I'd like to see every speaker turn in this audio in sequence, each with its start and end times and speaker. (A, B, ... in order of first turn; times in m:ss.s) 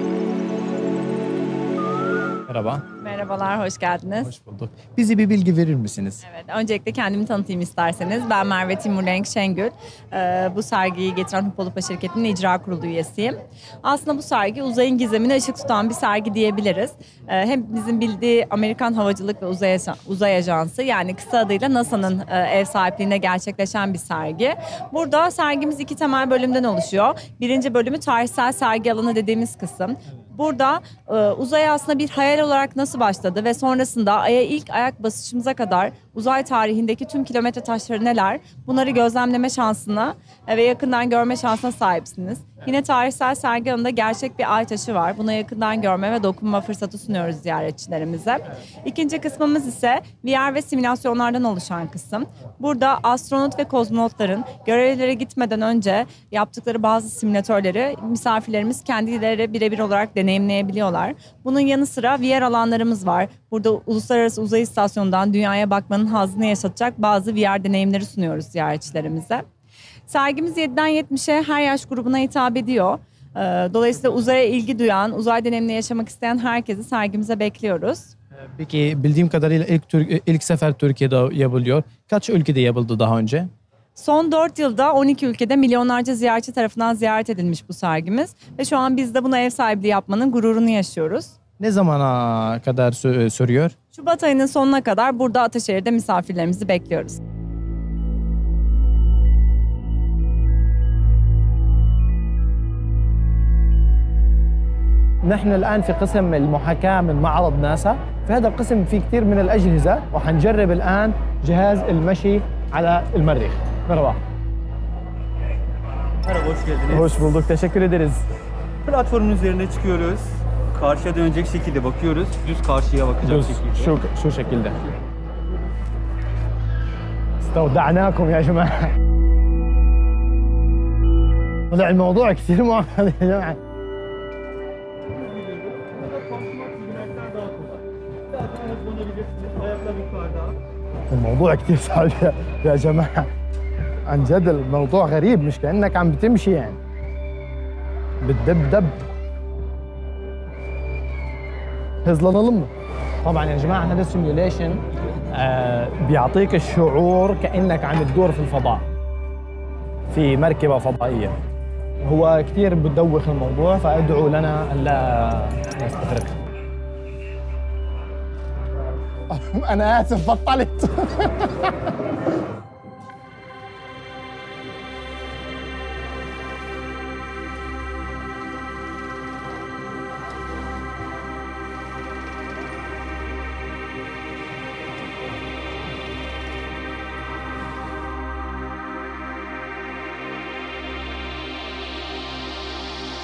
0:02.5-0:02.8 A
0:03.0-0:04.3 B
0:04.2-0:06.2 A
0:06.2-1:09.4 B
1:10.1-1:18.1 B
1:18.5-1:23.5 A
1:24.0-1:31.3 B
1:31.6-1:33.7 A
1:33.9-1:37.2 B
1:45.2-1:54.2 A
1:56.7-1:58.2 A
1:58.8-2:03.4 C
2:03.2-2:04.8 A
2:07.4-2:08.9 A
2:11.7-2:13.6 A
2:16.4-2:17.8 C
2:18.7-2:20.5 C
2:21.1-2:23.3 A
2:24.0-2:26.8 A
2:28.2-2:29.0 A
2:32.0-2:32.7 A
2:33.2-2:38.8 A
2:40.1-2:41.3 A
2:42.0-2:46.4 A
2:49.3-2:51.9 A